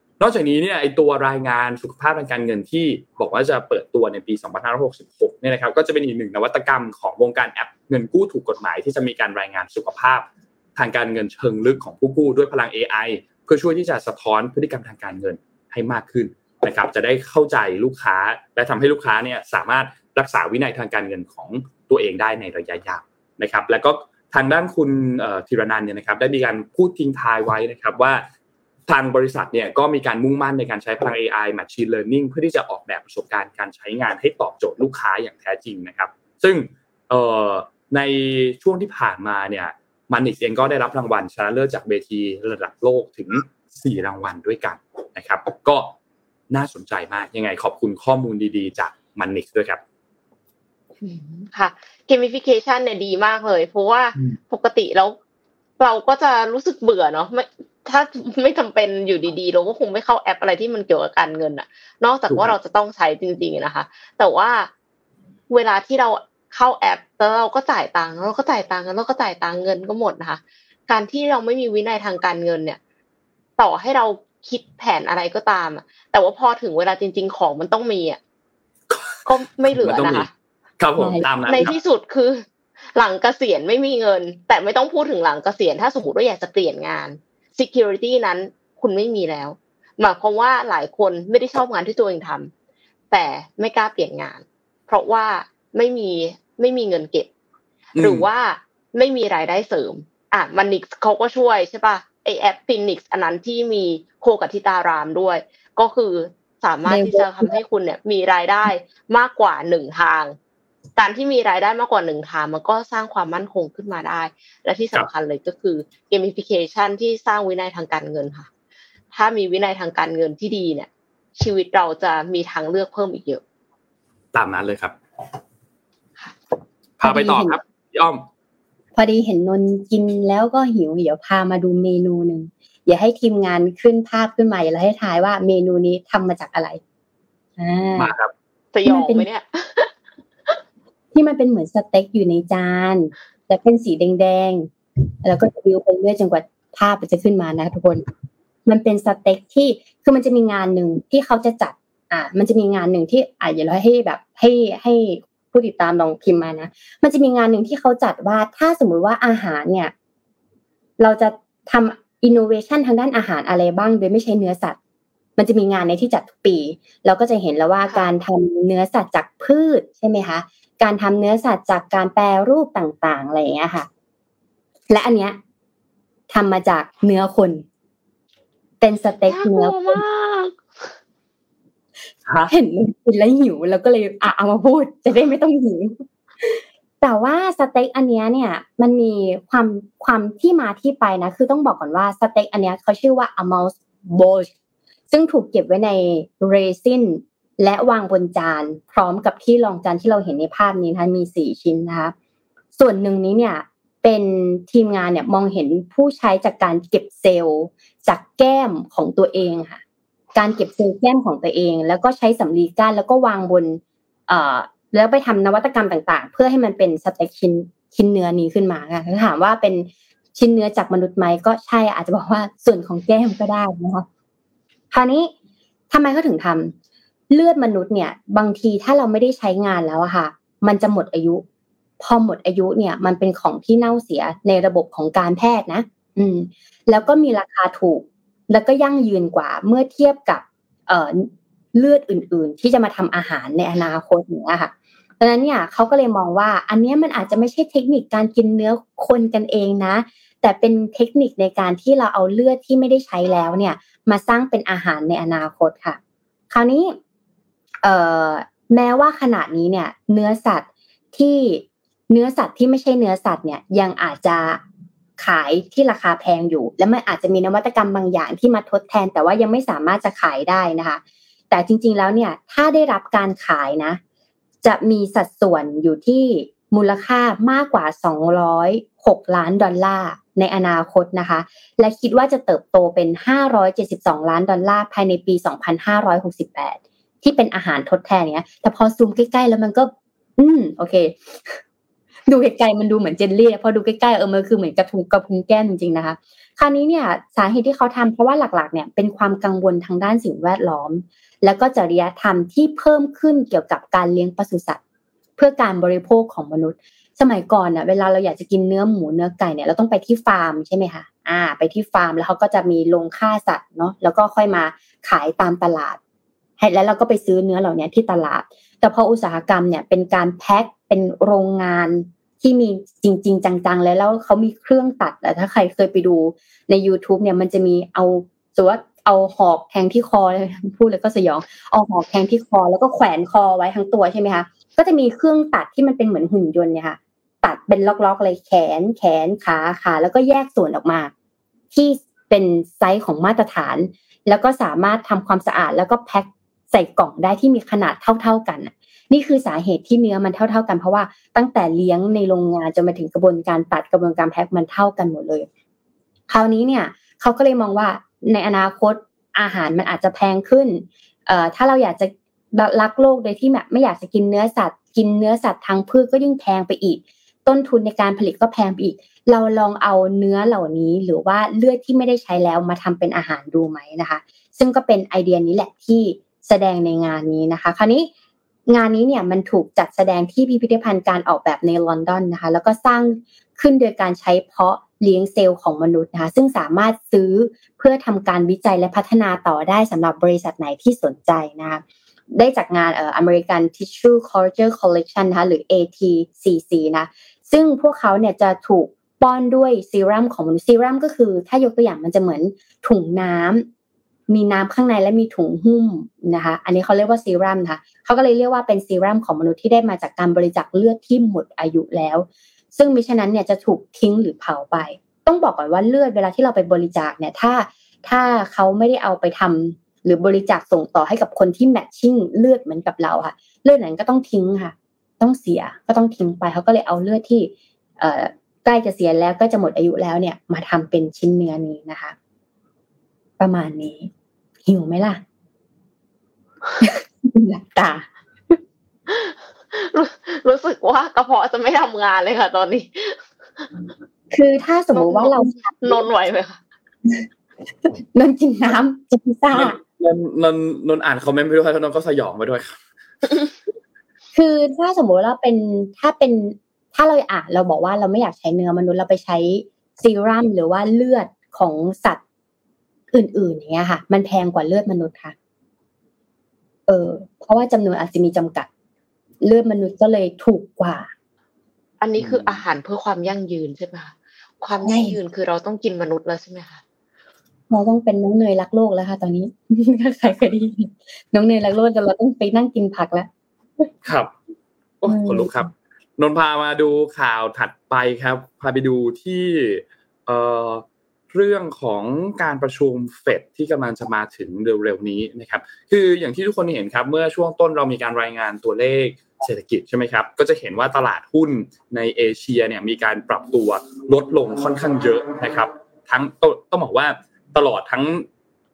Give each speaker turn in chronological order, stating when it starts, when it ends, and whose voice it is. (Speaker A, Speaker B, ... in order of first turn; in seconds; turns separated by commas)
Speaker A: 0.2-28.2, Speaker A: 28.9-45.9, Speaker A: 46.5-49.8, Speaker B: 51.0-55.2, Speaker B: 55.8-64.7, Speaker A: 62.3-62.5, Speaker B: 65.5-72.8, Speaker B: 73.6-78.2, Speaker A: 78.9-80.3, Speaker B: 79.2-80.3, Speaker A: 80.8-81.7, Speaker C: 81.0-81.7, Speaker B: 81.5-92.5, Speaker B: 93.1-97.3, Speaker B: 97.9-110.3, Speaker A: 98.0-98.3, Speaker C: 106.8-107.6, Speaker B: 111.0-118.5, Speaker B: 119.1-123.4, Speaker A: 124.3-125.0, Speaker A: 127.0-128.2, Speaker C: 127.0-127.6, Speaker C: 128.9-136.8, Speaker C: 137.6-138.1, Speaker A: 138.0-138.3, Speaker B: 138.7-139.9, Speaker C: 138.8-139.3, Speaker C: 141.1-144.7, Speaker C: 145.2-148.0, Speaker C: 148.7-159.9, Speaker C: 161.0-164.8, Speaker C: 165.4-173.9, Speaker C: 174.9-175.4, Speaker C: 176.3-177.6, Speaker C: 178.8-180.0, Speaker B: 179.3-180.9, Speaker A: 182.2-182.5, Speaker C: 182.5-194.5, Speaker C: 195.1-202.1, Speaker C: 202.7-209.8, Speaker C: 210.3-224.1, Speaker C: 224.9-225.3, Speaker C: 225.9-226.7, Speaker C: 227.3-231.4, Speaker C: 232.0-256.0, Speaker C: 256.5-257.0, Speaker C: 257.8-264.6, Speaker C: 265.2-274.0, Speaker C: 274.6-291.6, Speaker C: 292.3-304.8, Speaker C: 305.4-316.0, Speaker C: 316.6-341.1, Speaker C: 341.7-355.5, Speaker C: 356.3-378.1, Speaker C: 378.7-403.7, Speaker C: 404.3-432.1, Speaker C: 433.4-434.1, Speaker C: 434.6-435.2, Speaker C: 436.8-438.6, Speaker B: 439.1-443.7, Speaker C: 444.3-446.1, Speaker B: 444.9-446.6, Speaker C: 447.9-449.8, Speaker A: 449.5-452.8, Speaker C: 454.3-462.2, Speaker C: 463.1-465.3, Speaker C: 466.9-468.7, Speaker C: 469.4-471.1, Speaker B: 472.0-476.8, Speaker A: 472.2-472.6, Speaker C: 474.8-475.2, Speaker C: 477.7-483.3, Speaker A: 484.0-484.3, Speaker A: 485.0-508.3, Speaker C: 485.1-485.7